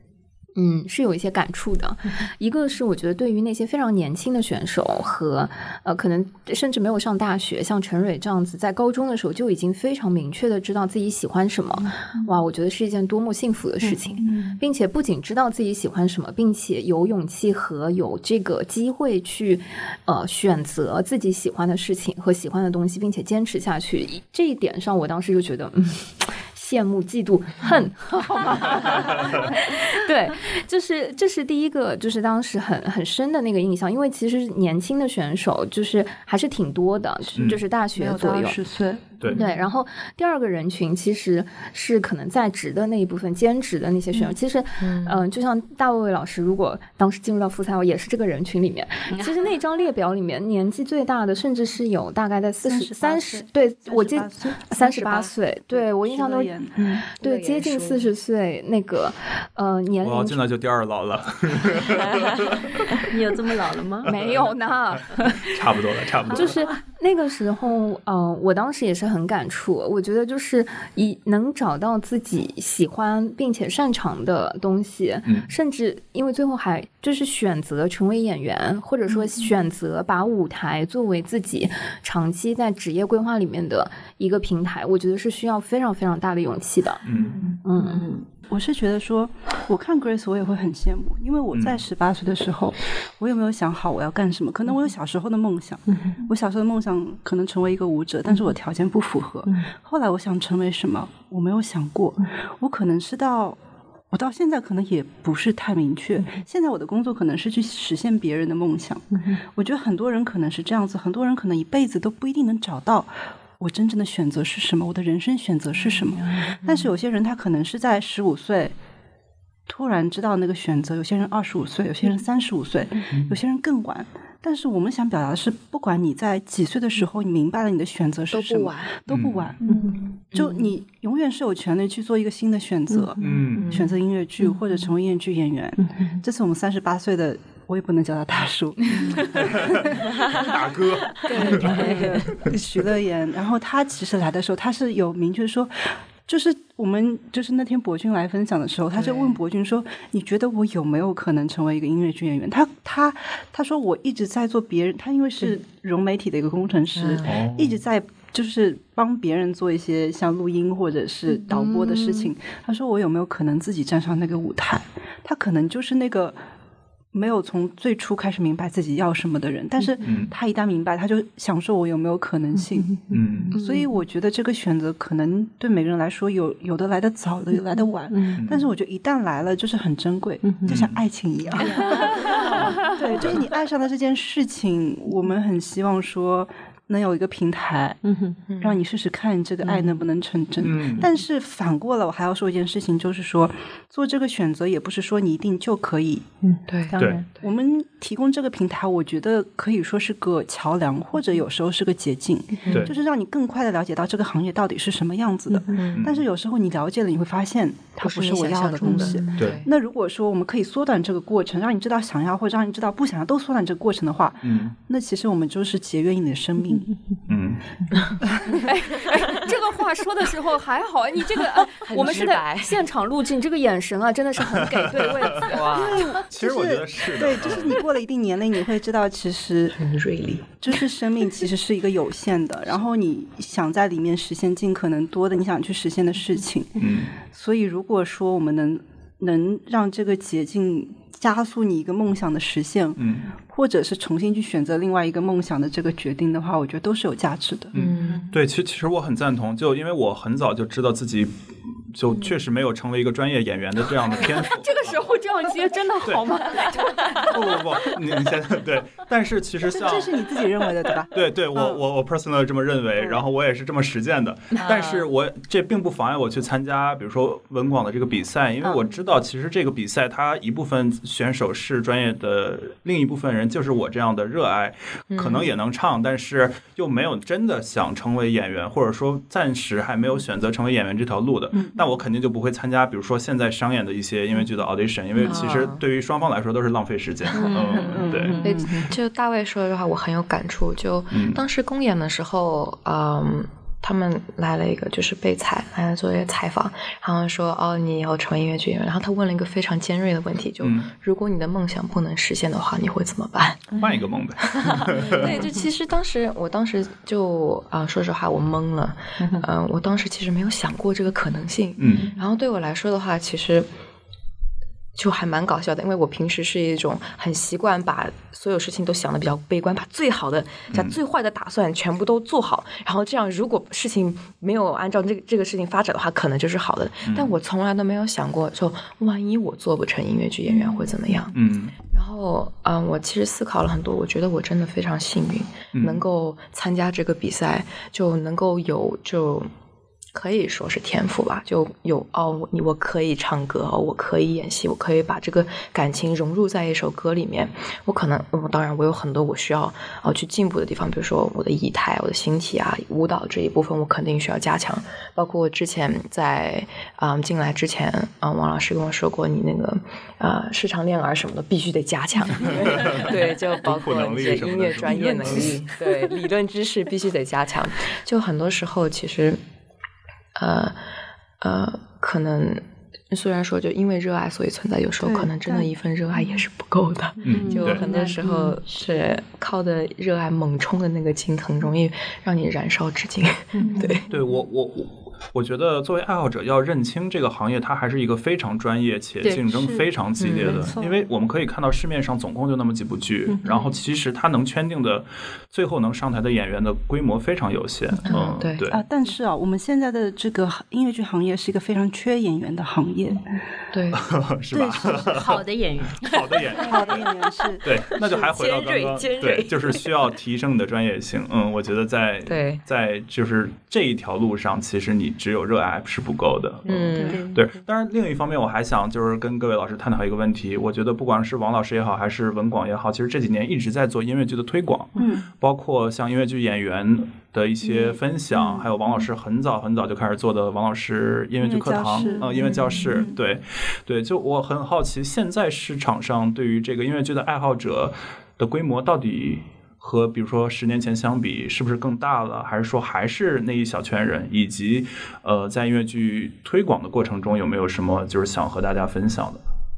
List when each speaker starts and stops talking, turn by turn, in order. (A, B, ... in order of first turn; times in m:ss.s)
0:00.6-0:38.6 A
0:14.2-0:14.6 B
0:37.3-0:39.4 B
0:39.4-0:56.5 A
0:44.8-0:45.2 C
0:49.1-0:49.5 D
0:52.6-0:57.1 B
0:57.2-1:00.4 A
0:57.2-0:58.1 C
1:00.0-1:02.9 E
1:03.0-1:04.1 D
1:04.0-1:05.6 A
1:04.0-1:04.5 E
1:05.3-1:06.6 E
1:06.3-1:27.0 A
1:06.3-1:06.6 D
1:15.2-1:15.5 E
1:27.0-1:27.4 E
1:27.6-1:28.0 A
1:27.8-1:28.3 D
1:28.5-1:43.6 B
1:31.5-1:31.8 E
1:44.1-1:58.7 B
1:49.1-1:49.4 D
1:59.7-2:20.5 B
2:09.1-2:09.5 E
2:09.7-2:10.5 D
2:12.9-2:13.6 D
2:13.2-2:13.7 E
2:13.6-2:13.9 C
2:14.4-2:14.9 D
2:15.8-2:16.2 D
2:19.1-2:22.5 E
2:21.2-2:46.4 B
2:21.3-2:21.6 A
2:21.4-2:22.2 D
2:37.0-2:37.3 C
2:37.2-2:37.8 E
2:41.6-2:42.2 A
2:47.1-2:53.0 B
2:50.0-2:50.3 E
2:52.6-2:53.5 D
2:53.1-2:53.5 E
2:53.5-2:53.9 A
2:53.6-3:08.0 B
2:57.7-2:58.4 D
2:58.4-2:58.7 E
3:00.4-3:00.8 D
3:00.6-3:01.0 E
3:01.6-3:02.8 D
3:02.5-3:03.4 E
3:08.0-3:08.4 D
3:08.5-3:08.8 C
3:08.6-3:16.3 B
3:09.6-3:10.0 D
3:10.6-3:11.1 E
3:16.4-3:17.3 D
3:16.7-3:17.0 C
3:17.0-3:17.2 E
3:17.3-3:36.9 B
3:22.6-3:22.9 C
3:22.7-3:22.9 E
3:25.5-3:25.8 D
3:25.7-3:26.1 C
3:25.9-3:26.2 E
3:28.0-3:29.7 C
3:29.4-3:29.6 E
3:34.4-3:34.7 E
3:37.3-3:37.6 E
3:38.5-3:45.9 A
3:41.6-3:42.8 C
3:44.7-3:45.6 E
3:45.4-3:46.2 C
3:45.7-3:49.8 B
3:46.2-3:47.8 E
3:49.8-3:50.5 C
3:50.5-4:07.7 B
3:56.8-3:57.1 E
4:03.0-4:03.3 E
4:07.7-4:08.2 C
4:07.7-4:14.9 E
4:08.1-4:08.3 D
4:12.1-4:12.4 C
4:14.1-4:17.6 A
4:17.3-4:20.4 E
4:19.7-4:21.8 B
4:21.1-4:48.4 E
4:23.0-4:23.2 B
4:24.6-4:25.0 D
4:35.1-4:35.5 C
4:45.2-4:45.8 C
4:47.3-5:03.7 C
4:47.5-4:48.9 D
4:47.6-4:48.6 B
4:51.1-4:51.4 E
5:00.6-5:00.9 E
5:03.8-5:05.4 E
5:04.4-5:13.7 C
5:05.0-5:05.5 A
5:09.2-5:09.5 D
5:11.8-5:12.0 E
5:15.0-5:31.3 C
5:27.1-5:27.3 E
5:31.3-5:31.7 E
5:31.9-5:39.5 C
5:35.7-5:36.0 E
5:40.1-6:09.4 C
6:02.4-6:05.5 E
6:04.9-6:05.6 D
6:10.3-6:10.8 C
6:11.4-6:24.0 C
6:15.0-6:15.7 B
6:17.2-6:17.8 E
6:17.3-6:18.2 A
6:17.6-6:18.7 D
6:23.6-6:24.0 D
6:24.1-6:38.8 E
6:29.2-6:31.0 B
6:30.2-6:30.7 C
6:33.3-6:33.6 D
6:33.5-6:33.7 C
6:38.1-6:38.6 C
6:38.7-6:43.3 B
6:43.7-6:44.0 C
6:43.9-6:45.4 E
6:44.5-6:45.0 B
6:45.0-6:46.6 D
6:46.0-6:47.0 E
6:46.5-6:47.7 B
6:47.6-7:29.4 E
6:48.1-6:49.9 C
6:52.2-6:52.6 C
6:56.6-6:57.2 C
6:57.0-6:57.2 D
7:05.0-7:05.3 B
7:07.6-7:08.6 B
7:11.4-7:13.2 B